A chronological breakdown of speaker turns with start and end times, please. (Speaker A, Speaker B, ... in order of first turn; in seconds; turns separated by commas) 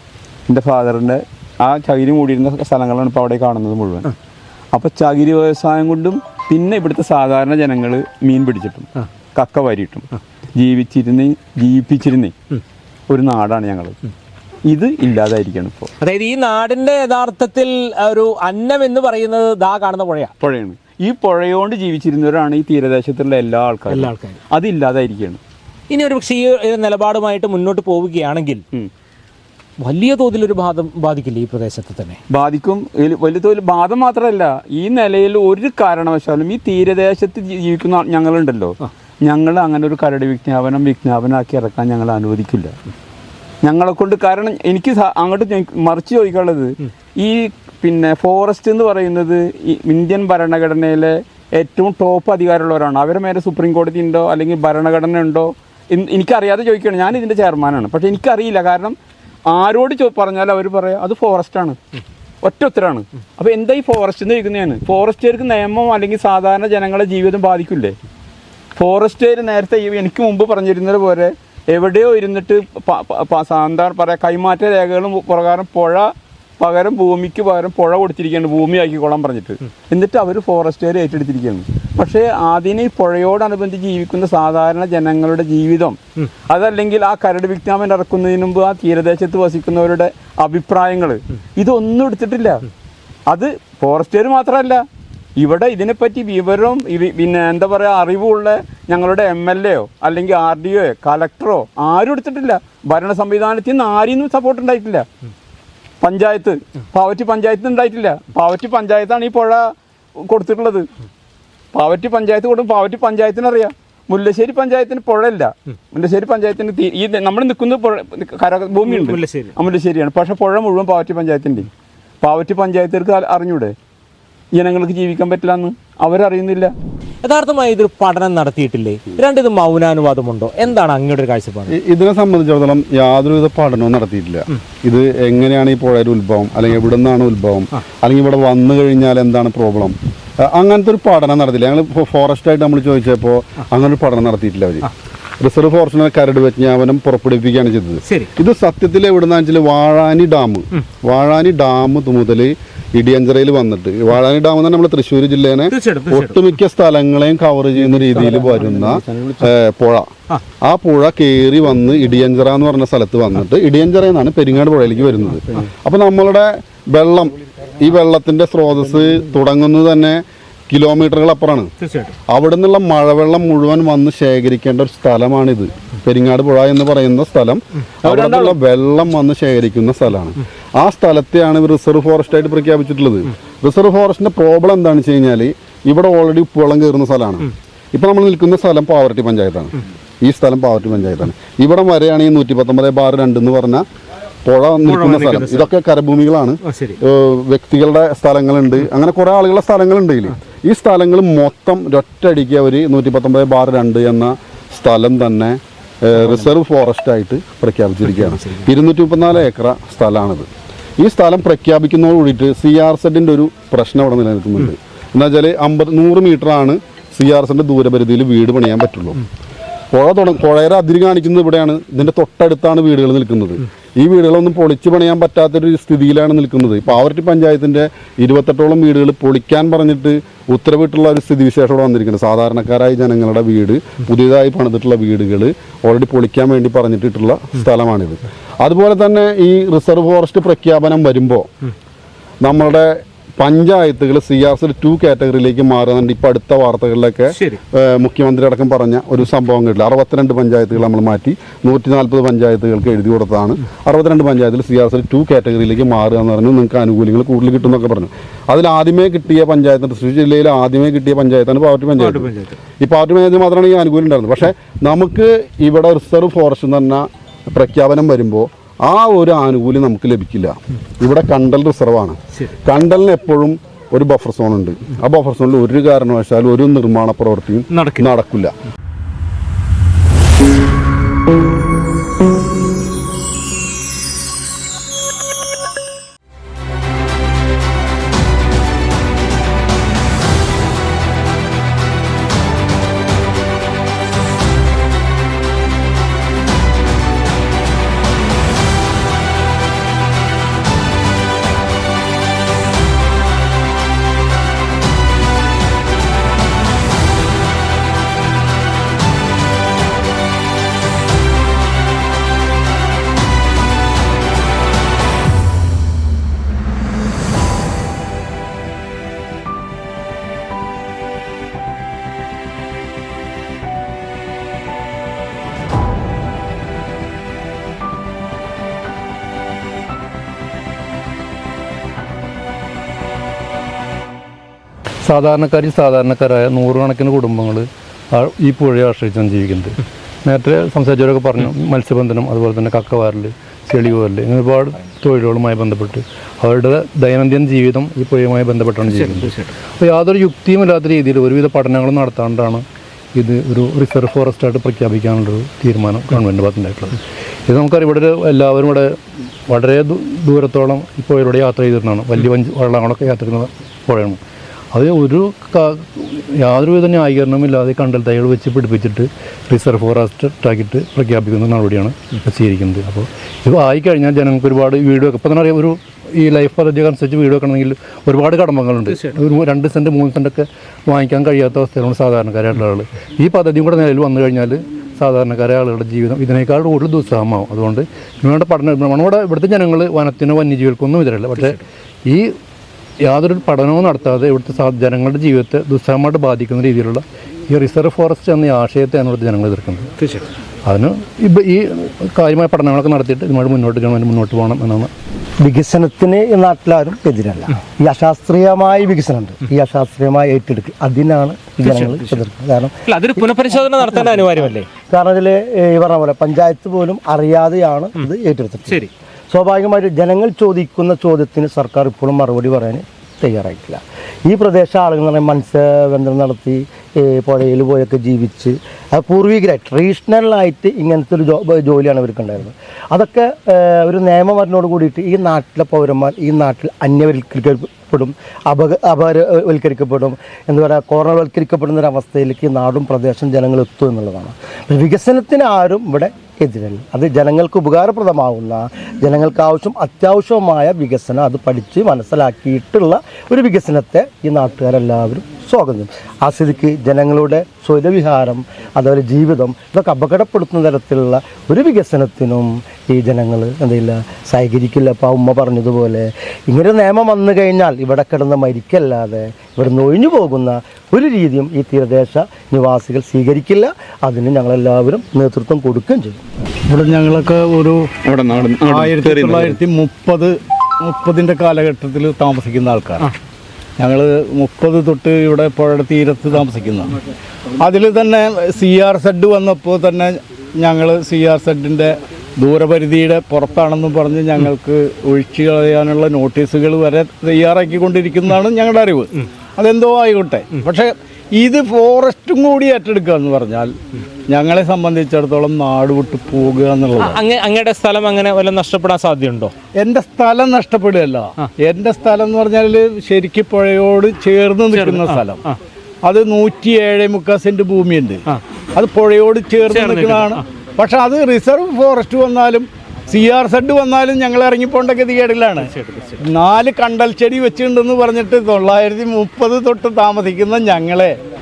Speaker A: 0.5-4.0, Speaker A: 4.7-12.3, Speaker A: 13.1-14.0, Speaker A: 14.7-15.9, Speaker B: 16.0-20.3, Speaker A: 20.4-25.4, Speaker B: 23.9-24.4, Speaker B: 25.9-28.6, Speaker B: 29.8-32.2, Speaker A: 32.3-42.7, Speaker A: 43.6-59.0, Speaker A: 59.5-61.8, Speaker A: 62.4-68.0, Speaker A: 68.8-86.0, Speaker A: 86.5-92.6, Speaker A: 93.3-94.8, Speaker A: 95.4-105.0, Speaker A: 106.0-109.7, Speaker A: 110.2-110.9, Speaker A: 111.7-121.7, Speaker B: 118.8-119.5, Speaker A: 122.2-123.7, Speaker A: 124.5-126.7, Speaker B: 127.2-131.8, Speaker C: 131.7-160.1, Speaker B: 155.7-156.4, Speaker A: 157.8-159.5, Speaker C: 160.6-171.7, Speaker B: 171.8-172.1, Speaker C: 172.3-193.8, Speaker A: 178.1-178.5, Speaker C: 194.4-210.5, Speaker B: 194.8-195.7, Speaker B: 196.6-197.0, Speaker B: 208.2-208.7, Speaker C: 211.0-219.2, Speaker C: 219.9-241.5, Speaker C: 242.4-278.5, Speaker B: 247.3-247.6, Speaker B: 262.0-262.6, Speaker B: 277.7-278.1, Speaker D: 335.1-352.6, Speaker B: 348.9-349.5, Speaker D: 353.1-358.9, Speaker D: 359.5-364.2, Speaker D: 364.7-392.3, Speaker D: 393.1-399.9, Speaker D: 400.6-404.9, Speaker E: 405.4-413.3, Speaker B: 411.6-412.2, Speaker B: 412.9-414.7, Speaker E: 413.8-414.3, Speaker E: 414.9-476.2, Speaker F: 476.7-477.9, Speaker A: 478.0-479.6, Speaker F: 478.5-483.1, Speaker F: 483.8-486.9, Speaker F: 487.6-503.7, Speaker F: 504.3-507.2, Speaker B: 507.0-509.5, Speaker F: 509.8-515.4, Speaker B: 514.7-515.6, Speaker F: 516.0-518.2, Speaker F: 518.8-525.7, Speaker B: 519.7-520.4, Speaker B: 525.6-526.2, Speaker F: 526.2-531.1